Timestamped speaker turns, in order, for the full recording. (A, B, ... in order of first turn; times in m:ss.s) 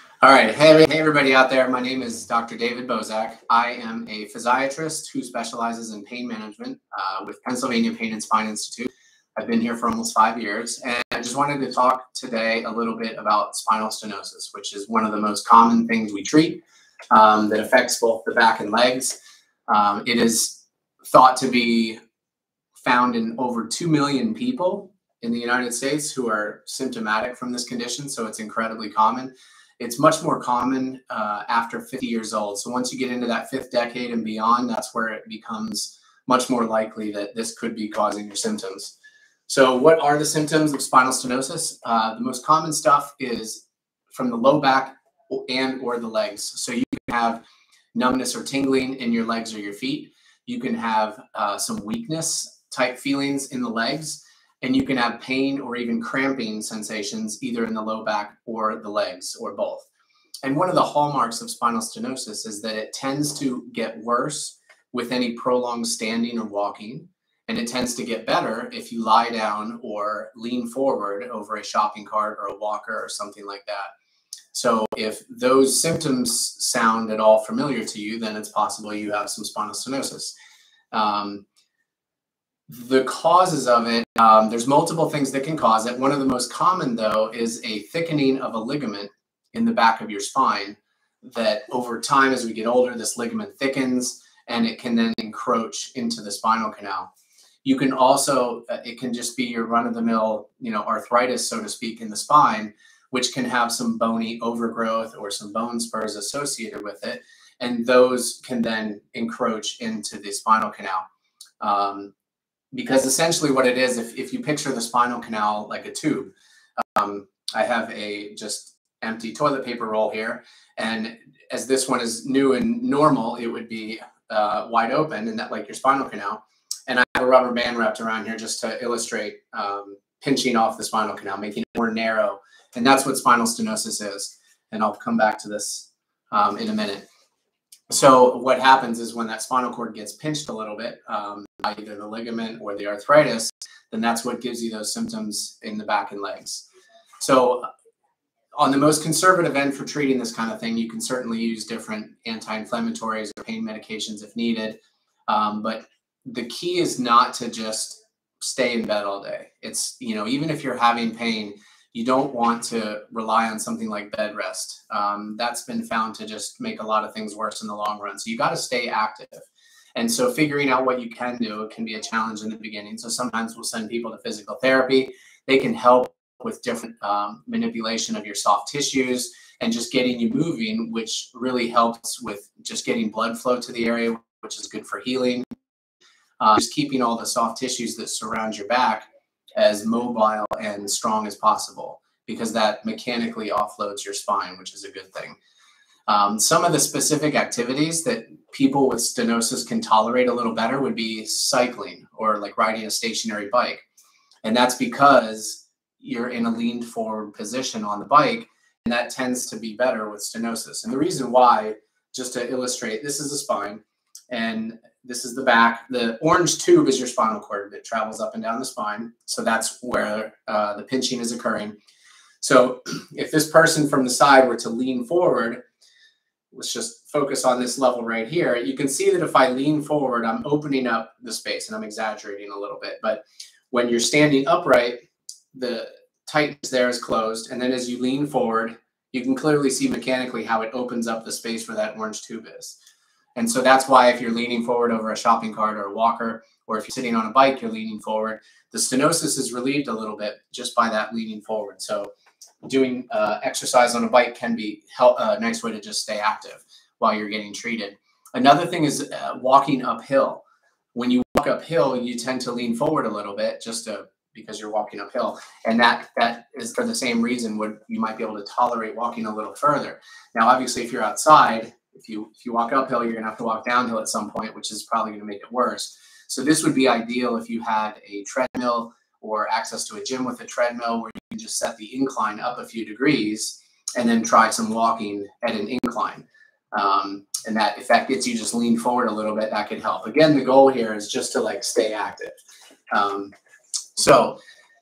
0:00.2-0:19.2 A
0:19.7-0:22.0 A
0:22.8-0:38.9 A
0:39.5-0:47.4 A
0:47.9-0:59.9 A
1:00.4-1:13.9 A
1:14.5-1:20.4 A
1:20.9-1:21.4 A
1:22.7-1:37.1 A
1:37.6-1:51.0 A
1:51.6-1:52.1 A
1:52.7-2:17.1 A
2:17.9-2:26.6 A
2:27.2-2:27.7 A
2:28.6-3:05.5 A
3:06.4-3:15.4 A
3:16.1-3:23.8 A
3:24.4-3:41.8 A
3:42.4-3:45.6 A
3:46.5-4:02.8 A
4:03.4-4:12.1 A
4:12.6-4:20.4 A
4:20.9-4:52.4 A
4:52.9-4:53.3 A
4:54.0-4:54.4 A